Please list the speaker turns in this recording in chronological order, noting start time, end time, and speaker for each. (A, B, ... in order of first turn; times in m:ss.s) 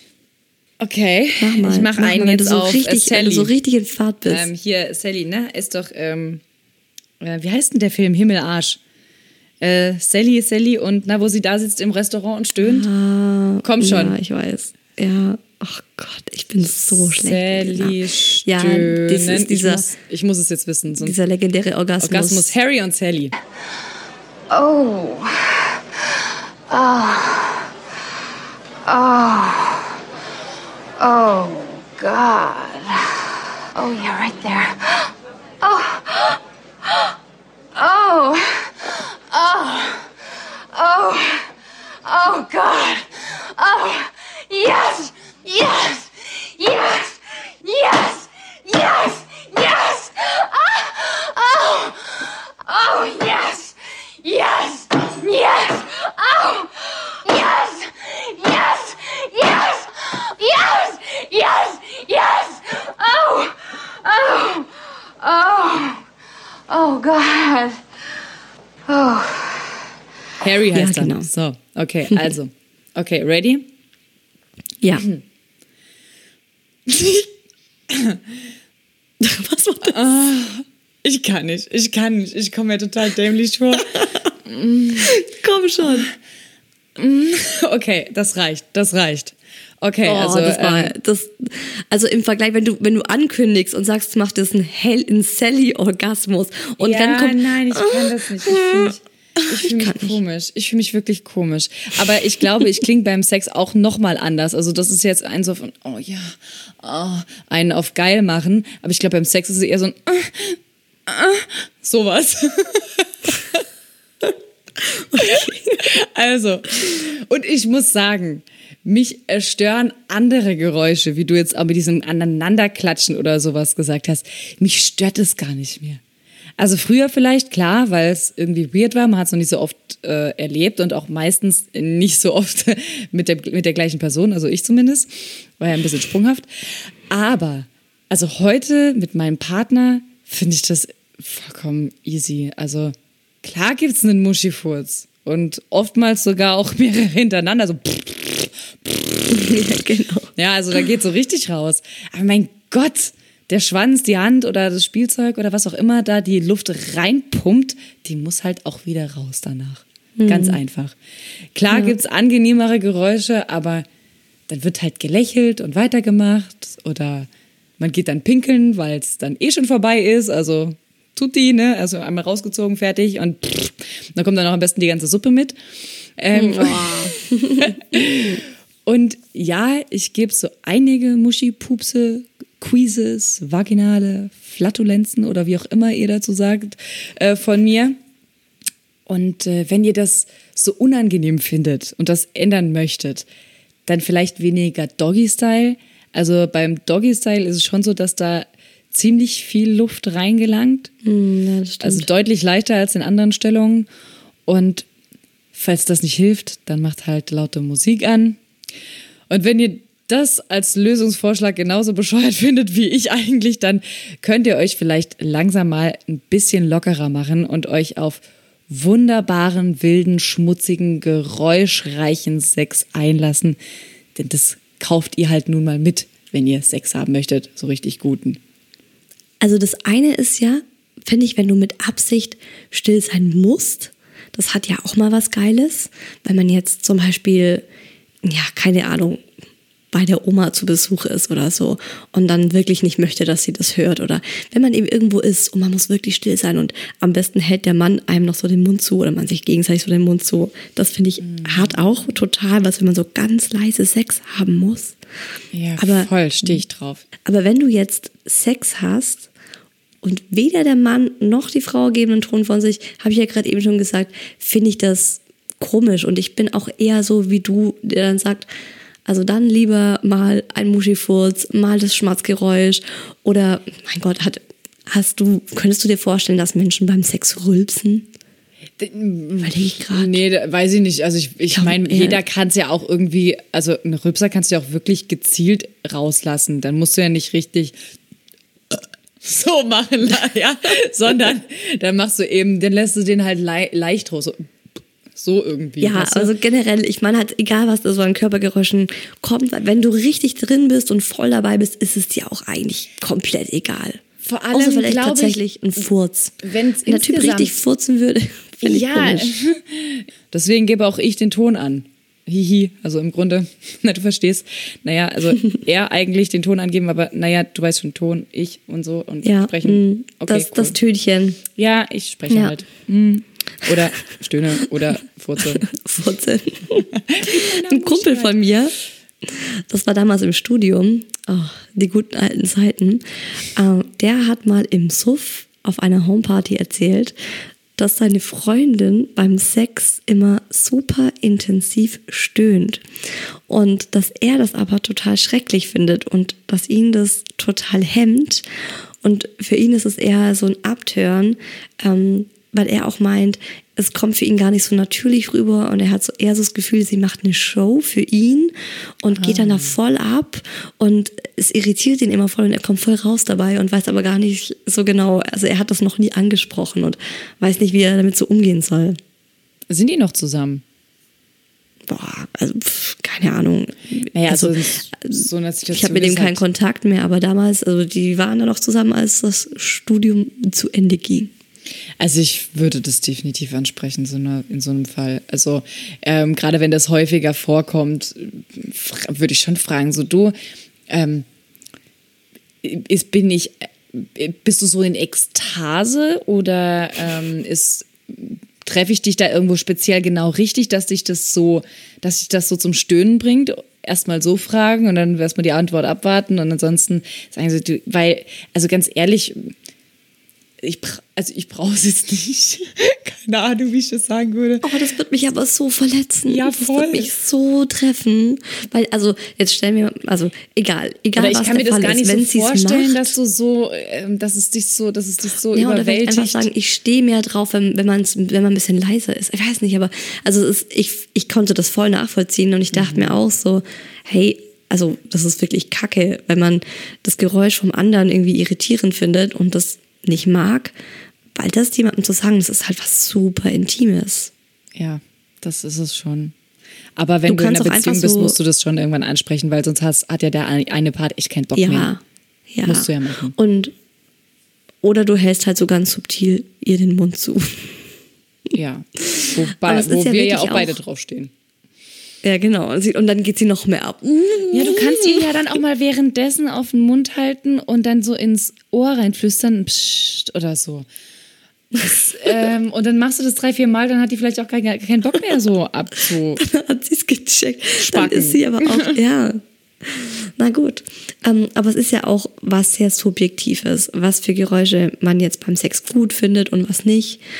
0:00.8-0:03.5 A
0:01.4-0:04.5 B
0:04.2-0:06.4 A
0:07.2-0:08.8 A
0:09.6-0:12.9 A
0:12.6-0:19.8 B
0:13.6-0:14.1 A
0:16.9-0:21.2 A
0:20.9-0:22.5 B
0:22.0-0:23.3 A
0:24.5-0:27.7 C
0:28.8-0:30.0 C
0:31.0-0:37.1 C
0:37.7-1:06.0 C
1:06.7-1:08.3 C
1:08.9-1:09.9 C
1:10.4-1:13.7 A
1:10.7-1:11.3 B
1:16.9-1:17.3 A
1:17.9-1:18.2 A
1:19.2-1:20.0 B
1:19.8-1:25.2 A
1:25.0-1:26.1 B
1:27.0-1:30.9 A
1:30.0-1:40.2 B
1:36.8-1:53.6 A
1:54.8-1:55.9 B
1:55.1-2:06.0 A
2:06.6-2:29.4 A
2:29.3-2:30.3 B
2:30.4-2:40.9 A
2:40.2-2:40.6 B
2:41.5-2:43.8 A
2:41.7-2:41.9 B
2:44.5-2:47.3 A
2:47.8-2:55.6 A
2:56.2-3:08.0 A
2:56.3-2:58.4 B
3:09.1-3:13.3 A
3:13.8-3:20.9 A
3:21.0-3:22.1 B
3:21.8-3:23.9 A
3:24.5-3:24.8 A
3:25.5-3:28.4 A
3:29.3-3:43.6 A
3:44.1-3:48.4 A
3:49.4-3:57.6 B
3:58.2-3:59.2 B
3:59.9-4:15.0 B
4:11.2-4:11.8 A
4:15.5-4:17.0 A
4:15.8-4:16.6 B
4:17.2-4:19.3 B
4:20.0-4:28.5 B
4:29.0-4:38.1 B
4:38.8-4:47.7 A
4:39.4-4:40.2 B
4:41.5-4:42.2 B
4:48.7-4:54.5 A
4:55.2-4:56.3 A
4:55.8-5:04.0 B
5:04.2-5:05.4 A
5:04.5-5:09.3 B
5:06.4-5:07.6 A
5:08.6-5:20.8 A
5:19.2-5:21.4 B
5:21.6-5:25.6 A
5:22.3-5:22.5 B
5:25.4-5:37.2 B
5:26.9-5:28.4 A
5:37.8-5:42.8 B
5:43.5-5:48.4 B
5:49.0-6:09.0 B
5:59.1-5:59.7 A
6:09.7-6:10.6 A
6:11.8-6:21.3 B
6:14.1-6:16.4 A
6:22.0-6:30.3 A
6:30.9-6:31.2 A
6:32.6-6:49.5 A
6:50.6-6:54.7 A
6:54.6-7:03.1 B
6:56.3-6:57.1 A
7:01.2-7:06.5 A
7:05.5-7:20.7 B
7:12.7-7:13.2 A
7:21.3-7:24.3 B
7:24.8-7:26.3 A
7:27.0-7:31.9 A
7:27.3-7:28.4 B
7:31.5-7:33.7 B
7:32.6-7:33.3 A
7:34.8-7:37.8 B
7:38.5-7:41.3 A
7:39.1-7:40.8 B
7:42.2-7:45.2 B
7:44.5-7:50.9 A
7:51.7-7:56.4 A
7:56.4-8:07.2 B
7:57.8-7:58.9 A